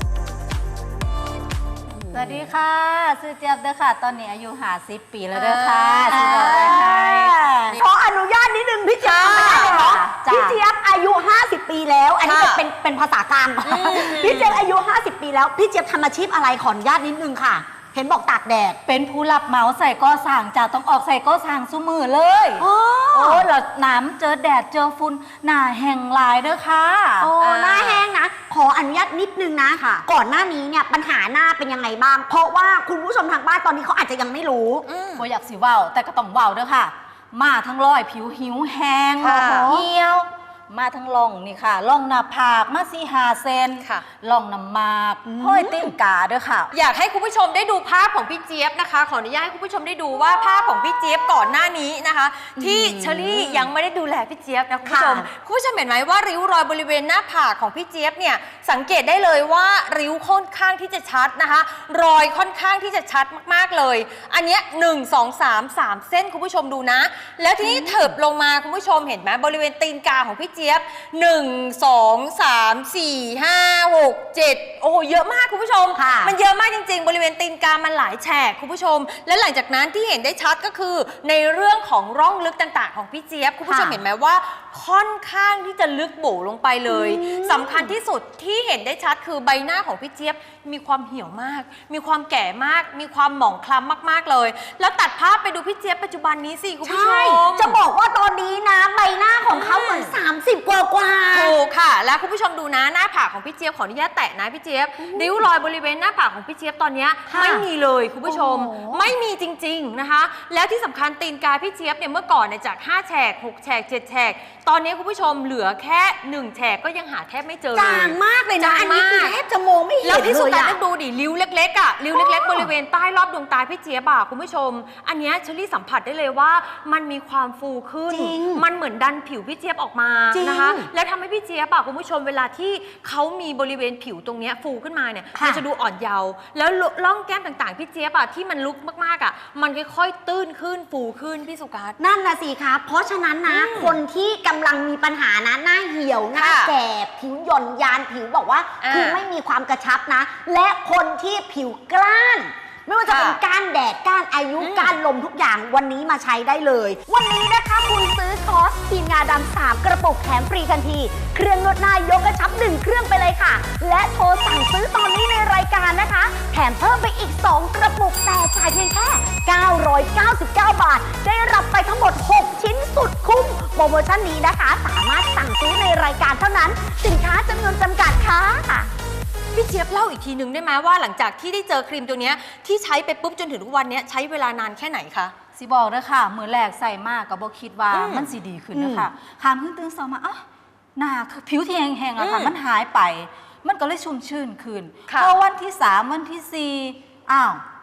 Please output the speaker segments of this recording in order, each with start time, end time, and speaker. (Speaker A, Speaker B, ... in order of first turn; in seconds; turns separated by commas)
Speaker A: 1.9-2.5, Speaker B: 2.1-7.7, Speaker C: 5.3-6.8, Speaker A: 6.1-18.8, Speaker C: 9.0-9.8, Speaker B: 9.4-10.6, Speaker C: 12.2-12.6, Speaker C: 13.7-14.6, Speaker B: 18.9-27.3, Speaker A: 22.6-23.5, Speaker A: 27.2-34.9, Speaker C: 27.4-28.0, Speaker B: 29.8-30.1, Speaker C: 34.9-35.2, Speaker B: 35.2-46.7, Speaker C: 39.2-39.7, Speaker A: 39.2-40.0, Speaker A: 45.3-45.9, Speaker C: 46.7-97.8, Speaker A: 52.6-53.7, Speaker A: 54.9-55.3, Speaker A: 67.6-68.1, Speaker A: 76.0-76.3, Speaker A: 83.6-84.0, Speaker A: 86.9-87.9, Speaker A: 96.8-101.5, Speaker C: 99.5-100.2, Speaker C: 101.3-119.3, Speaker A: 105.0-105.5, Speaker A: 107.3-107.7, Speaker A: 108.3-109.1, Speaker A: 117.7-120.8, Speaker C: 120.0-142.0, Speaker A: 122.1-122.7, Speaker A: 128.1-128.6, Speaker A: 130.3-130.9, Speaker A: 135.3-135.6, Speaker A: 142.0-178.9, Speaker C: 143.5-144.0, Speaker C: 146.4-146.7, Speaker C: 148.8-149.2, Speaker C: 153.1-153.4, Speaker C: 154.6-155.0, Speaker C: 179.5-185.3, Speaker B: 185.6-190.4, Speaker C: 187.9-188.3, Speaker A: 188.7-189.1, Speaker B: 191.0-197.6, Speaker C: 192.2-192.5, Speaker C: 195.1-195.3